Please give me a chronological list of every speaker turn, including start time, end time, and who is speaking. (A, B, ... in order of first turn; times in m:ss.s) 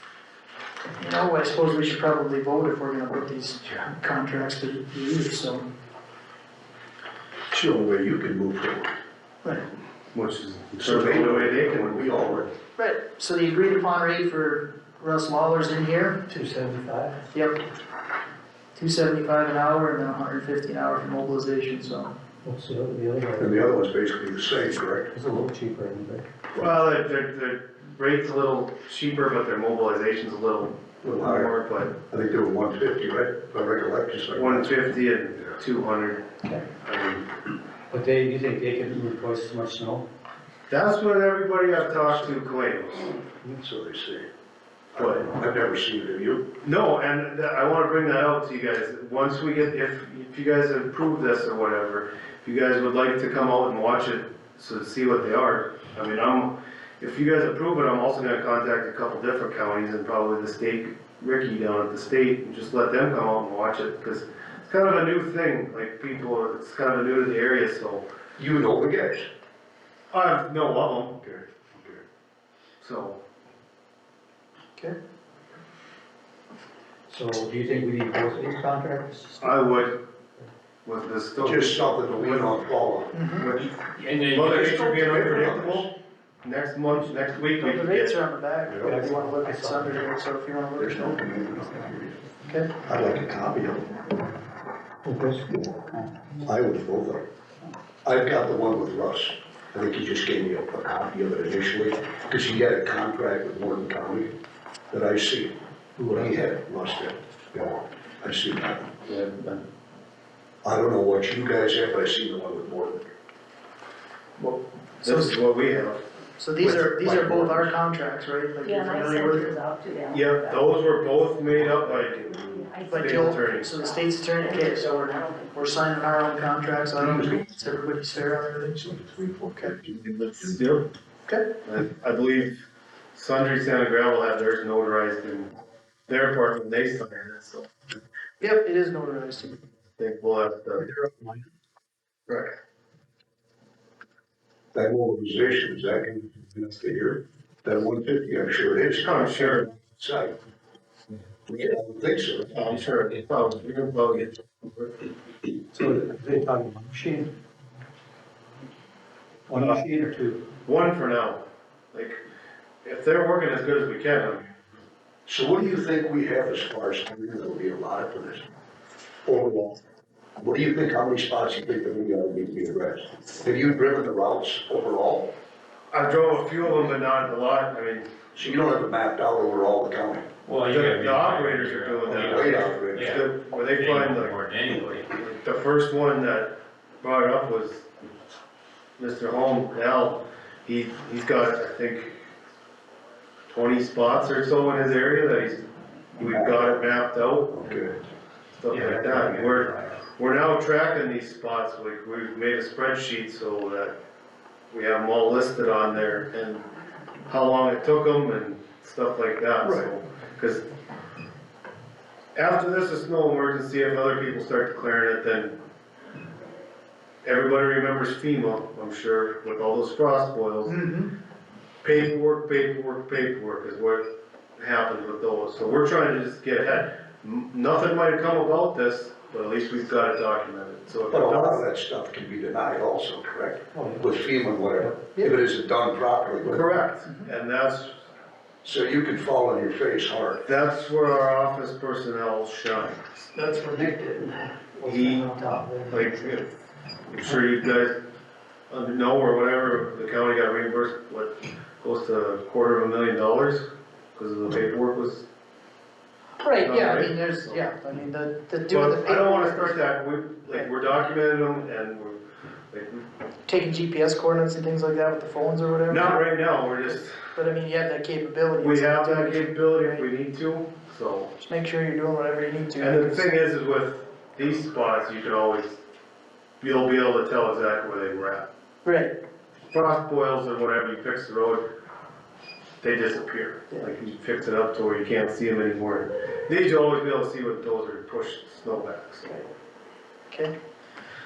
0:01.0-0:05.7 A
0:07.5-0:08.9 B
0:10.1-0:12.3 C
0:10.8-0:12.5 B
0:12.8-0:16.2 A
0:16.3-0:17.2 D
0:17.3-0:17.6 A
0:18.8-0:22.1 A
0:22.4-0:23.7 D
0:23.4-0:25.1 B
0:25.1-0:26.3 D
0:26.6-0:31.9 C
0:31.0-0:31.5 B
0:32.1-0:35.6 B
0:34.3-0:37.3 C
0:37.9-0:40.1 D
0:40.7-0:43.1 C
0:41.9-0:42.5 B
0:43.4-0:44.3 B
0:45.0-0:46.5 B
0:45.0-0:45.2 C
0:46.6-1:08.0 C
1:08.4-1:09.3 B
1:10.1-1:11.2 C
1:11.2-1:12.0 B
1:12.8-1:13.2 C
1:17.1-1:19.6 D
1:19.4-1:20.0 C
1:20.8-1:22.5 C
1:21.4-1:23.3 B
1:23.1-1:23.5 A
1:23.4-1:25.9 C
1:24.0-1:24.8 E
1:24.4-1:25.9 B
1:26.4-1:28.2 C
1:27.6-1:31.7 A
1:28.7-1:28.9 B
1:28.8-1:30.1 D
1:30.8-1:32.2 B
1:32.4-1:32.7 A
1:32.8-1:33.9 B
1:35.0-1:36.1 D
1:35.5-1:35.8 B
1:36.4-1:37.3 B
1:38.0-1:44.3 B
1:44.9-1:49.0 B
1:49.1-1:49.6 C
1:50.6-1:53.1 B
1:54.4-1:56.0 C
1:55.0-1:55.4 A
1:56.4-1:59.6 A
1:56.6-1:57.8 B
1:58.6-2:01.8 F
2:00.1-2:03.7 C
2:02.3-2:05.9 F
2:02.9-2:08.8 A
2:07.0-2:07.5 B
2:08.7-2:10.5 B
2:10.0-2:10.8 C
2:11.6-2:12.6 C
2:13.2-2:15.5 C
2:16.1-2:17.7 C
2:18.4-2:19.6 A
2:20.0-2:20.9 C
2:21.0-2:21.4 D
2:24.7-2:30.4 B
2:29.0-2:29.7 C
2:31.5-2:32.7 B
2:32.5-2:34.9 C
2:35.8-2:37.3 D
2:39.5-2:40.4 D
2:40.6-2:42.2 C
2:42.8-2:44.5 C
2:45.3-2:48.4 B
2:49.2-2:49.8 B
2:50.4-2:55.3 B
2:55.9-2:58.1 C
2:58.4-3:00.3 B
3:00.4-3:05.1 E
3:00.6-3:04.4 C
3:02.1-3:03.2 B
3:05.1-3:07.9 C
3:09.0-3:12.1 C
3:13.5-3:15.6 C
3:16.2-3:17.8 C
3:16.2-3:16.7 B
3:17.5-3:18.0 B
3:18.5-3:24.0 C
3:18.7-3:20.0 E
3:24.7-3:26.6 C
3:27.3-3:30.6 C
3:29.6-3:29.9 B
3:32.4-3:35.6 C
3:37.2-3:40.8 C
3:40.6-3:41.1 A
3:41.8-3:44.0 C
3:44.6-3:51.6 C
3:51.1-3:56.7 B
3:53.7-3:54.1 D
3:56.5-3:58.0 C
3:58.6-4:00.5 B
4:00.4-4:03.3 C
4:03.4-4:06.4 D
4:04.8-4:05.3 C
4:05.9-4:06.4 C
4:07.1-4:08.0 C
4:08.7-4:13.6 C
4:14.2-4:15.2 C
4:16.4-4:20.0 A
4:16.6-4:17.6 C
4:18.7-4:22.2 C
4:22.7-4:23.0 C
4:23.5-4:30.0 A
4:25.9-4:27.2 C
4:28.6-4:31.3 C
4:31.4-4:33.3 A
4:32.8-4:35.8 C
4:36.6-4:38.5 C
4:38.8-4:39.2 A
4:39.7-4:41.7 C
4:42.8-4:49.5 C